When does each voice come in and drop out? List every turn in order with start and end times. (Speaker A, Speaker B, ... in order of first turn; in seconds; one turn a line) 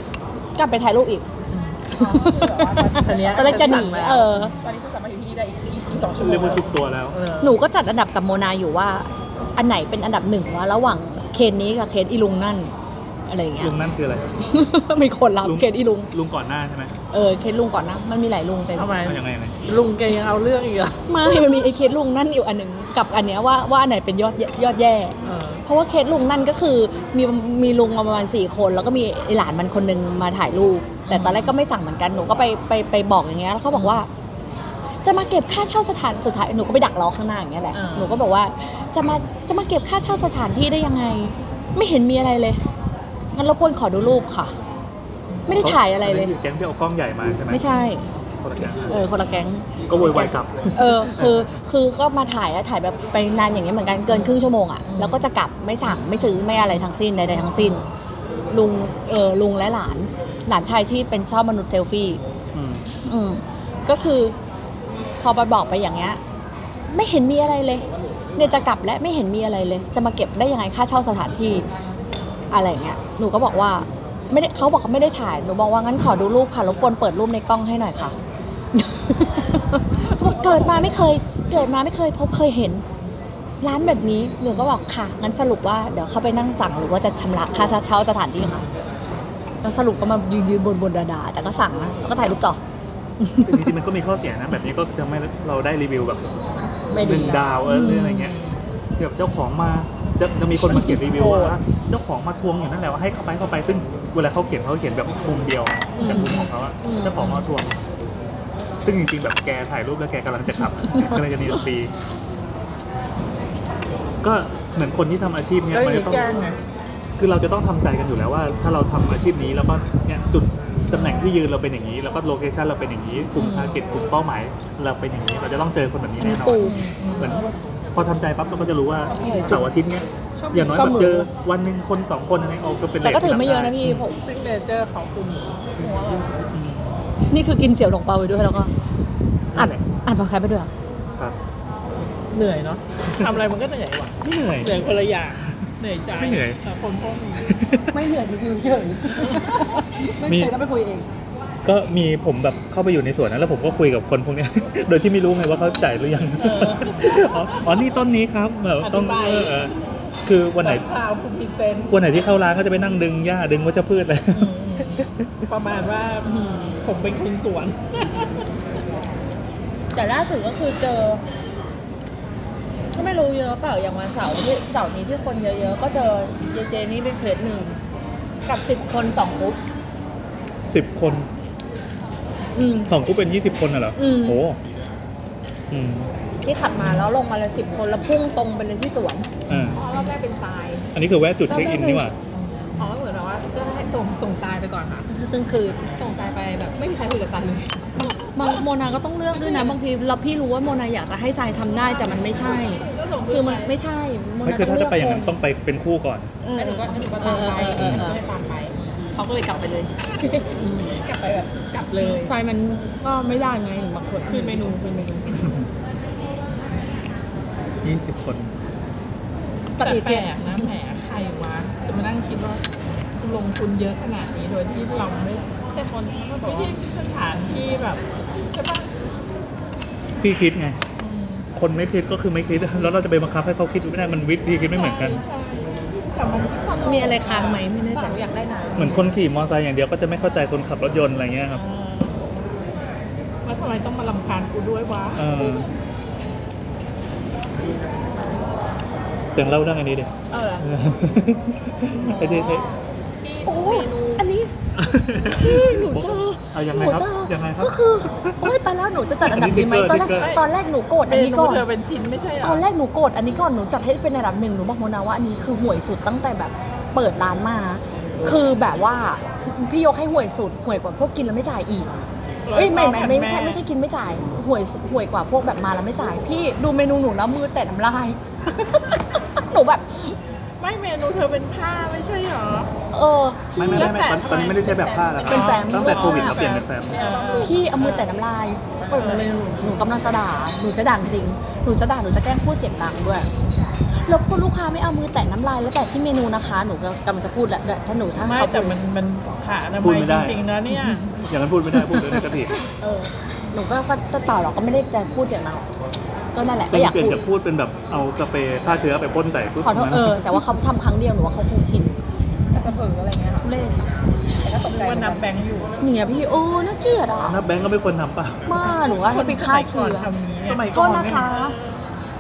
Speaker A: 0.6-1.2
Speaker B: 1.5-1.9
Speaker C: 1.9-6.7
Speaker A: 1.9-4.6
Speaker B: 2.9-4.5
Speaker D: 6.1-7.2
Speaker B: 7.1-7.6
Speaker A: 7.4-12.7
Speaker A: 13.3-13.7
Speaker D: 13.6-14.4
Speaker A: 14.4-16.1
Speaker D: 15.4-17.0
Speaker A: 17.1-19.0
Speaker B: 18.8-21.0
Speaker D: 19.0-19.6
Speaker A: 21.1-34.1
Speaker B: 25.2-25.6
Speaker B: 31.1-31.5
Speaker B: 33.7-34.0
Speaker A: 35.0-42.6
Speaker B: 37.7-38.2
Speaker A: 43.3-44.5
Speaker B: 45.3-45.6
Speaker A: 45.5-46.3
Speaker D: 45.5-47.6
Speaker A: 47.5-48.1
Speaker D: 48.4-48.9
Speaker A: 48.8-57.8
Speaker D: 49.9-51.4
Speaker B: 54.1-55.2
Speaker B: 55.8-57.9
Speaker A: 58.5-62.2
Speaker D: 62.5-62.9
Speaker A: 63.1-64.4
Speaker A: 65.2-66.2
Speaker A: 66.9-67.8
Speaker A: 68.4-71.7
Speaker A: 72.5-78.2
Speaker A: 78.8-82.8
Speaker B: 80.0-81.0
Speaker A: 83.6-88.6
Speaker A: 89.6-92.6
Speaker A: 93.2-93.7
Speaker D: 93.4-96.3
Speaker A: 96.9-98.3
Speaker D: 96.9-98.4
Speaker B: 97.9-98.6
Speaker D: 99.0-107.8
Speaker A: 100.7-101.0
Speaker B: 100.7-101.6
Speaker A: 106.0-107.0
Speaker B: 106.0-107.5
Speaker D: 108.8-111.9
Speaker D: 114.2-116.3
Speaker B: 115.7-116.6
Speaker D: 117.2-134.1
Speaker B: 120.9-121.3
Speaker B: 123.4-123.8
Speaker A: 126.2-126.8
Speaker B: 126.6-127.4
Speaker C: 127.2-127.5
Speaker C: 129.1-129.4
Speaker B: 129.2-129.6
Speaker A: 129.2-129.6
Speaker C: 130.4-131.0
Speaker A: 130.7-131.3
Speaker A: 133.0-134.2
Speaker B: 134.2-135.7
Speaker C: 135.8-136.3
Speaker D: 136.5-137.0
Speaker A: 137.3-138.7
Speaker A: 139.6-140.7
Speaker B: 142.3-147.5
Speaker D: 144.2-144.8
Speaker D: 146.2-146.6
Speaker D: 147.4-148.0
Speaker A: 147.9-151.1
Speaker B: 149.2-149.8
Speaker D: 150.2-150.6
Speaker D: 151.6-160.9
Speaker B: 156.4-157.8
Speaker B: 158.8-159.7
Speaker B: 160.6-161.9
Speaker D: 161.9-165.4
Speaker B: 164.3-168.4
Speaker A: 166.2-166.8
Speaker A: 169.9-171.2
Speaker A: 172.9-177.8
Speaker A: 178.5-179.6
Speaker D: 180.7-181.3
Speaker A: 182.6-182.9
Speaker D: 182.9-184.6
Speaker A: 184.0-184.4
Speaker D: 185.7-186.1
Speaker A: 186.4-190.1
Speaker D: 189.5-189.8
Speaker B: 189.5-189.9
Speaker C: 189.7-190.9
Speaker D: 190.9-192.2
Speaker A: 191.5-192.1
Speaker B: 192.3-192.9
Speaker C: 192.8-195.1
Speaker A: 195.1-195.8
Speaker C: 195.9-198.1
Speaker A: 198.0-205.4
Speaker C: 202.1-203.7
Speaker D: 204.4-206.3
Speaker A: 206.4-208.2
Speaker C: 206.5-212.3
Speaker D: 207.8-208.1
Speaker A: 210.6-211.0
Speaker A: 212.0-214.8
Speaker C: 214.3-215.4
Speaker D: 215.4-215.7
Speaker D: 217.8-218.5
Speaker A: 219.8-220.7
Speaker B: 219.8-222.6
Speaker B: 223.2-225.5
Speaker C: 225.8-226.8
Speaker B: 226.4-228.9
Speaker D: 230.2-230.8
Speaker C: 231.0-231.3
Speaker D: 231.5-235.2
Speaker B: 234.6-237.7
Speaker A: 236.8-238.2
Speaker C: 237.8-239.0
Speaker D: 238.8-241.6
Speaker B: 241.5-242.2
Speaker B: 243.4-245.7
Speaker D: 245.1-245.7
Speaker D: 249.4-252.7
Speaker B: 250.3-250.6
Speaker C: 252.1-252.6
Speaker B: 252.3-252.7
Speaker B: 253.2-254.2
Speaker C: 253.3-253.9
Speaker A: 253.4-254.5
Speaker D: 254.8-258.6
Speaker A: 255.2-261.6
Speaker D: 259.2-260.4
Speaker B: 260.0-260.4
Speaker B: 261.1-262.6
Speaker A: 262.4-271.9
Speaker B: 272.5-273.6
Speaker A: 272.5-280.1
Speaker B: 280.6-282.7
Speaker A: 282.9-284.0
Speaker D: 283.6-287.0
Speaker B: 283.6-288.1
Speaker A: 285.2-286.4
Speaker C: 285.7-287.6
Speaker A: 287.4-293.3
Speaker B: 288.9-289.2
Speaker A: 294.0-298.8
Speaker B: 298.2-301.2
Speaker D: 299.8-300.5
Speaker A: 300.7-301.0
Speaker D: 301.3-302.6
Speaker B: 301.8-302.3
Speaker A: 302.8-305.7
Speaker A: 306.3-307.2
Speaker D: 306.7-310.2
Speaker A: 309.6-311.9
Speaker C: 312.5-313.5
Speaker A: 313.4-313.9
Speaker C: 314.4-315.2
Speaker B: 314.6-315.8
Speaker A: 314.8-315.2
Speaker A: 315.8-317.4
Speaker D: 317.2-318.5
Speaker A: 318.5-320.1
Speaker B: 318.5-320.7
Speaker D: 320.5-321.4
Speaker A: 320.7-321.6